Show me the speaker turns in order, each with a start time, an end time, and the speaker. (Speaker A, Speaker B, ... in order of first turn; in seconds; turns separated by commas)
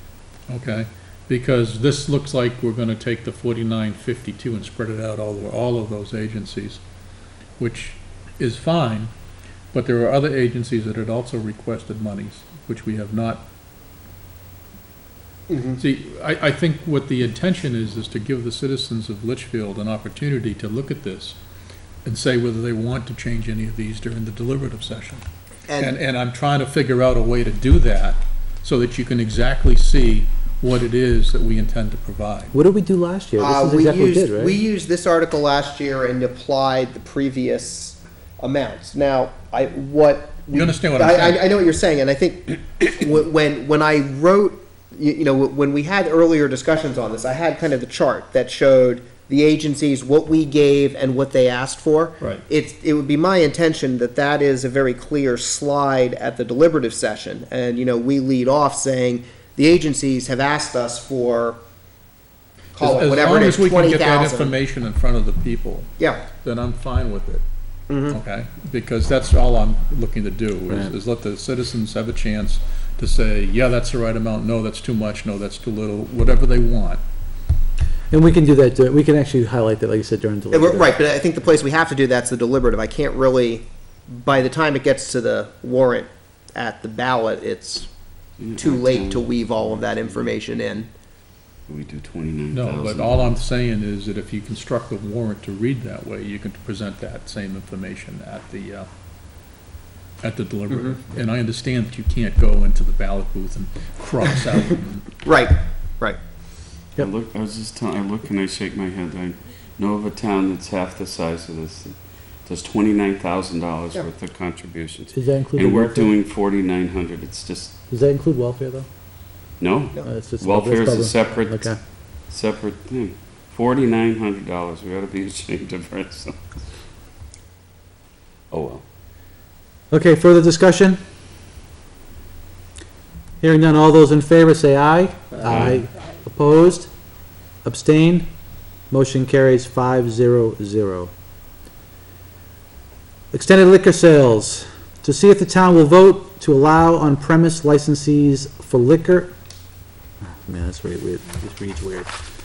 Speaker A: 0.5-6.8, Speaker A: 7.6-9.1, Speaker A: 9.7-13.4, Speaker B: 15.5-15.8, Speaker A: 15.8-21.4, Speaker A: 22.1-25.2, Speaker B: 25.7-26.0, Speaker A: 25.8-32.5, Speaker C: 32.5-34.6, Speaker B: 33.4-61.6, Speaker A: 40.5-41.5, Speaker B: 62.8-64.5, Speaker A: 62.8-67.4, Speaker B: 66.0-66.2, Speaker B: 67.9-68.2, Speaker A: 68.1-77.0, Speaker C: 78.1-80.9, Speaker B: 80.5-87.9, Speaker D: 88.4-90.4, Speaker B: 88.6-90.9, Speaker D: 91.7-93.4, Speaker A: 92.5-98.9, Speaker A: 100.2-105.0, Speaker B: 100.7-101.0, Speaker B: 105.2-106.2, Speaker D: 107.0-117.8, Speaker C: 115.1-116.1, Speaker C: 117.9-118.9, Speaker D: 119.6-121.7, Speaker C: 120.1-121.8, Speaker D: 122.3-126.4, Speaker D: 128.5-128.8, Speaker C: 129.9-131.0, Speaker C: 133.4-136.9, Speaker D: 135.4-135.8, Speaker C: 137.7-138.3, Speaker C: 138.9-141.1, Speaker C: 143.3-149.3, Speaker C: 150.4-152.1